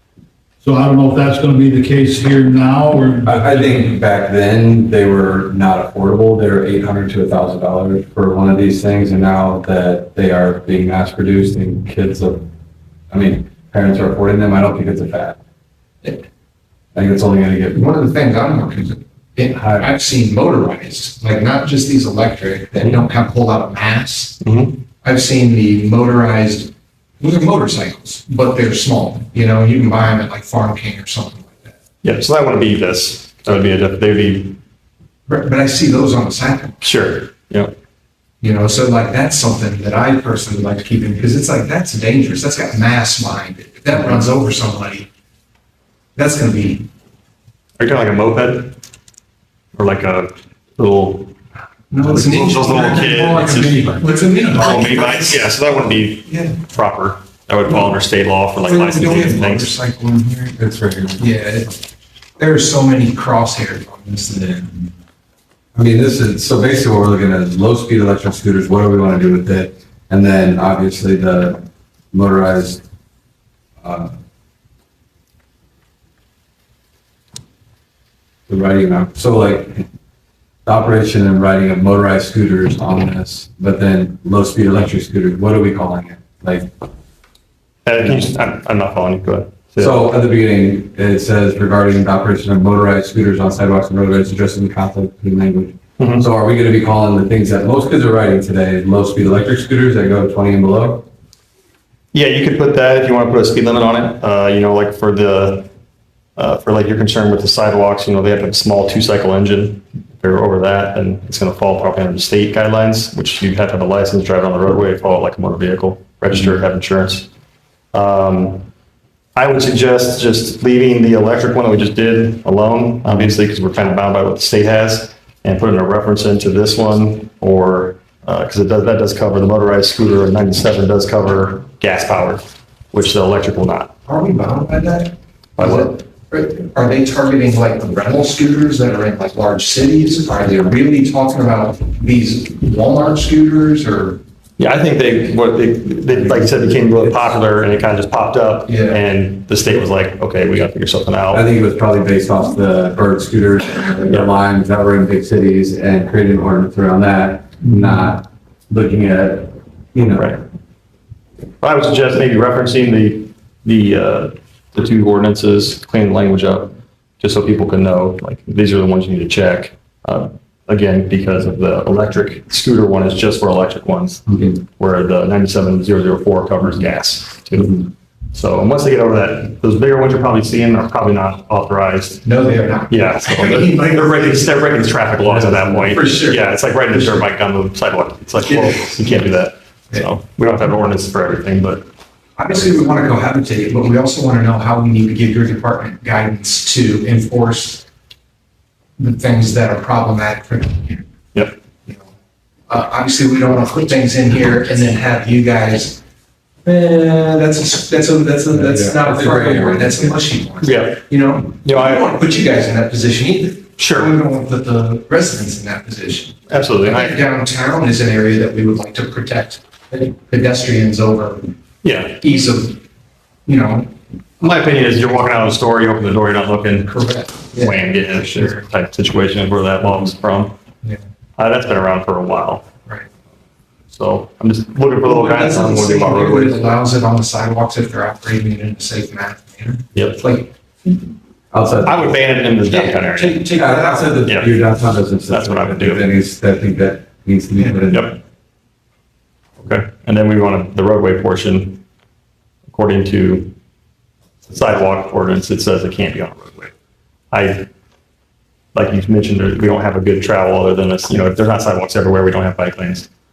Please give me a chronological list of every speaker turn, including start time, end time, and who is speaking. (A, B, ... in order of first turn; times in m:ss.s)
0:00.6-0:03.8 A
0:03.2-0:12.4 B
0:13.1-0:15.4 B
0:16.9-0:17.8 B
0:17.7-0:24.4 C
0:19.5-0:19.9 B
0:24.4-0:24.8 D
0:25.0-0:31.7 C
0:32.0-0:34.6 D
0:35.3-0:36.8 C
0:36.8-0:37.7 D
0:38.4-0:45.1 C
0:46.2-0:46.9 C
0:47.8-0:48.8 D
0:49.8-0:51.3 D
0:51.9-0:53.3 C
0:52.0-0:53.8 D
0:52.6-0:54.5 A
0:53.9-0:56.6 C
0:54.5-0:59.7 D
0:58.6-1:00.6 C
1:00.6-1:01.2 B
1:01.2-1:01.8 C
1:02.4-1:04.9 C
1:05.7-1:12.8 B
1:13.8-1:14.1 B
1:18.5-1:19.8 B
1:20.6-1:26.7 B
1:27.8-1:30.0 D
1:29.8-1:41.0 B
1:36.0-1:36.2 D
1:42.1-1:45.7 D
1:46.4-1:57.3 D
1:57.9-1:58.7 D
1:59.4-2:13.9 D
2:14.1-2:24.2 C
2:15.6-2:16.0 D
2:24.6-2:31.4 D
2:28.7-2:29.0 C
2:31.3-2:40.4 B
2:40.1-2:40.4 D
2:41.6-3:02.2 D
3:02.2-3:04.4 C
3:02.9-3:11.8 D
3:05.3-3:05.9 B
3:05.8-3:07.3 C
3:12.4-3:17.8 C
3:19.0-3:21.1 C
3:22.7-3:26.0 C
3:26.6-3:41.5 C
3:28.5-3:30.2 B
3:30.6-3:31.0 D
3:31.6-3:32.0 D
3:33.8-3:34.1 D
3:36.5-3:37.2 D
3:41.8-3:42.2 D
3:42.2-3:42.8 C
3:43.4-3:43.9 C
3:44.4-3:50.5 D
3:46.8-3:48.6 C
3:51.4-3:52.7 D
3:53.9-3:56.6 D
3:55.0-4:00.9 C
3:59.9-4:00.2 D
4:01.5-4:02.2 B
4:01.8-4:03.5 D
4:02.7-4:04.4 C
4:03.2-4:08.2 B
4:04.2-4:04.6 D
4:05.3-4:06.1 D
4:07.6-4:07.9 C
4:07.9-4:08.2 D
4:09.6-4:11.8 D
4:12.7-4:13.5 D
4:14.5-4:16.7 D
4:17.3-4:17.7 D
4:18.7-4:23.1 D